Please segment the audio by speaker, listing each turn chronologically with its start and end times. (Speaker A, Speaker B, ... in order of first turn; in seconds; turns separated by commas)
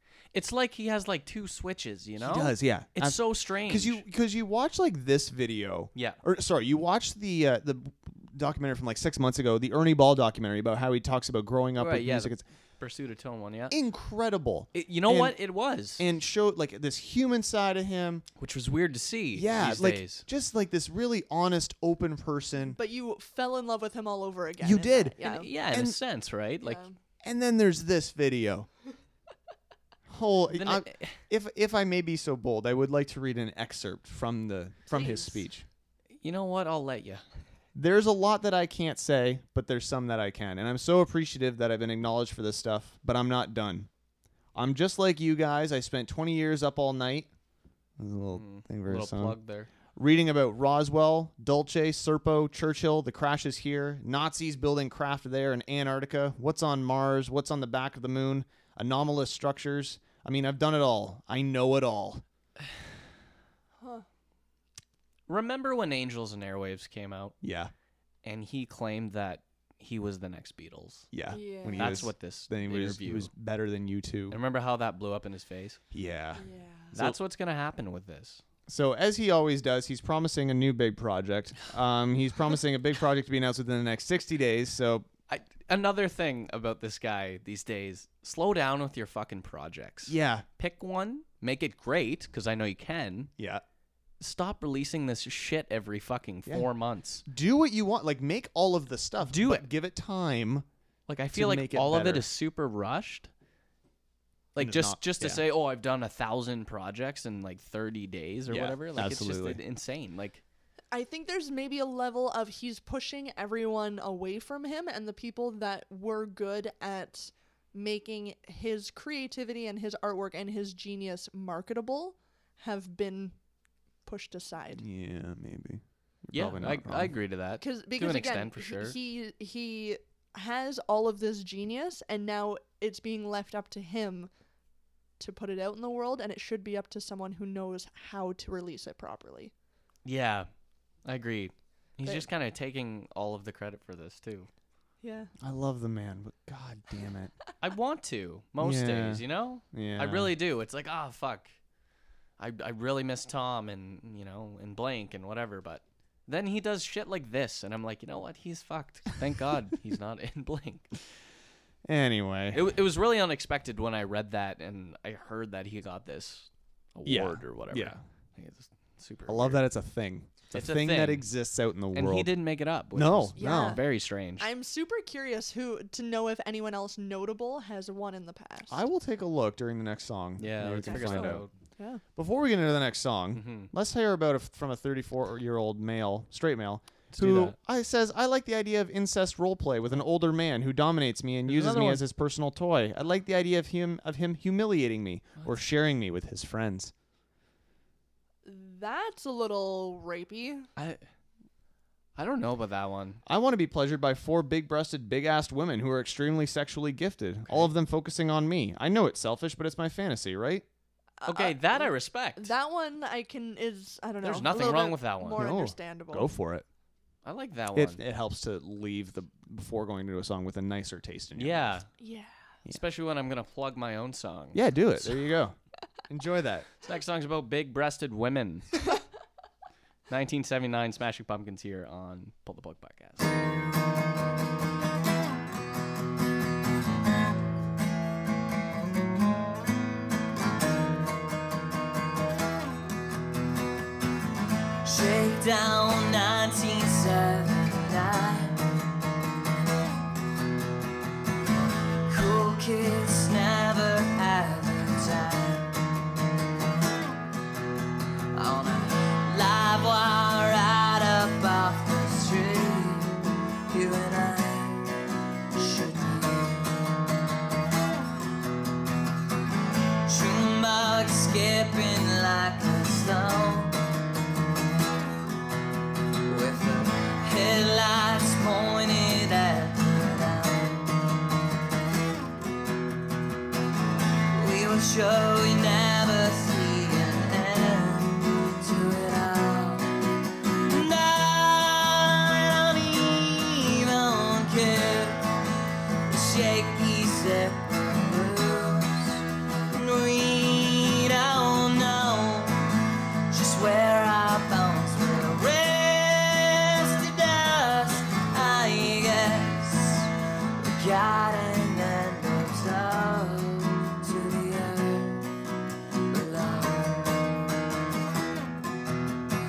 Speaker A: 0.3-4.0, Speaker B: 2.2-12.4, Speaker A: 6.0-6.2, Speaker A: 11.8-13.8, Speaker B: 13.7-15.4, Speaker A: 14.7-16.0, Speaker B: 16.0-18.3, Speaker A: 18.4-20.2, Speaker B: 19.3-22.8, Speaker C: 22.7-25.5, Speaker B: 24.6-25.1, Speaker A: 25.2-26.8, Speaker B: 25.7-26.0, Speaker C: 26.6-27.0, Speaker B: 27.2-28.7, Speaker B: 30.1-35.6, Speaker A: 30.5-31.2, Speaker C: 34.9-35.5, Speaker A: 36.2-37.2, Speaker B: 37.8-43.9, Speaker B: 44.5-47.3, Speaker B: 48.0-49.4, Speaker A: 48.3-49.7, Speaker B: 50.0-62.2, Speaker C: 63.8-64.1, Speaker A: 65.3-67.4, Speaker B: 67.4-67.7, Speaker A: 68.2-71.1, Speaker B: 71.1-74.4, Speaker C: 71.3-72.1, Speaker A: 71.8-73.3, Speaker A: 74.3-75.8, Speaker B: 75.9-77.2, Speaker C: 76.4-76.9, Speaker A: 77.0-78.4, Speaker B: 78.7-85.1, Speaker A: 85.3-93.3, Speaker B: 90.1-90.5, Speaker B: 93.4-93.6, Speaker A: 94.2-97.2, Speaker B: 97.3-100.7, Speaker A: 99.2-99.7, Speaker A: 101.1-103.3, Speaker B: 101.3-102.2, Speaker A: 104.5-110.4, Speaker B: 104.6-105.4, Speaker B: 108.5-109.6, Speaker C: 110.9-123.4, Speaker C: 124.0-124.8, Speaker B: 124.8-127.1, Speaker A: 126.3-129.0, Speaker C: 127.6-134.3, Speaker C: 135.2-139.5, Speaker A: 140.1-140.5, Speaker A: 141.1-144.5, Speaker C: 145.0-145.3, Speaker B: 145.4-147.3, Speaker A: 147.6-151.5, Speaker B: 148.6-150.3, Speaker A: 152.4-160.9, Speaker B: 161.9-162.6, Speaker A: 162.5-169.7, Speaker B: 167.1-168.0, Speaker B: 169.3-172.3, Speaker A: 170.5-171.3, Speaker A: 171.9-174.5, Speaker B: 172.9-173.8, Speaker C: 173.4-173.8, Speaker C: 174.4-178.8, Speaker B: 178.7-181.5, Speaker A: 180.4-181.5, Speaker C: 180.8-182.0, Speaker B: 182.2-196.9, Speaker A: 183.3-183.7, Speaker A: 187.1-187.6, Speaker A: 191.5-192.1, Speaker C: 198.4-200.7, Speaker A: 200.8-201.0, Speaker A: 202.2-203.2, Speaker B: 203.3-210.7, Speaker C: 211.2-216.3, Speaker A: 211.3-212.5, Speaker A: 214.2-215.4, Speaker B: 215.3-216.7, Speaker A: 217.2-218.0, Speaker B: 217.8-221.8, Speaker A: 221.4-221.9, Speaker C: 222.0-222.3, Speaker A: 222.7-225.3, Speaker B: 224.5-225.6, Speaker B: 226.1-226.7, Speaker A: 226.8-228.9, Speaker A: 230.1-233.3, Speaker D: 244.8-248.6, Speaker D: 252.1-255.7, Speaker D: 258.3-264.9, Speaker D: 265.6-266.8, Speaker D: 270.1-273.8, Speaker D: 276.3-281.0, Speaker D: 284.3-289.9, Speaker D: 290.6-295.2, Speaker D: 296.1-302.6, Speaker D: 303.3-315.2, Speaker D: 316.1-317.4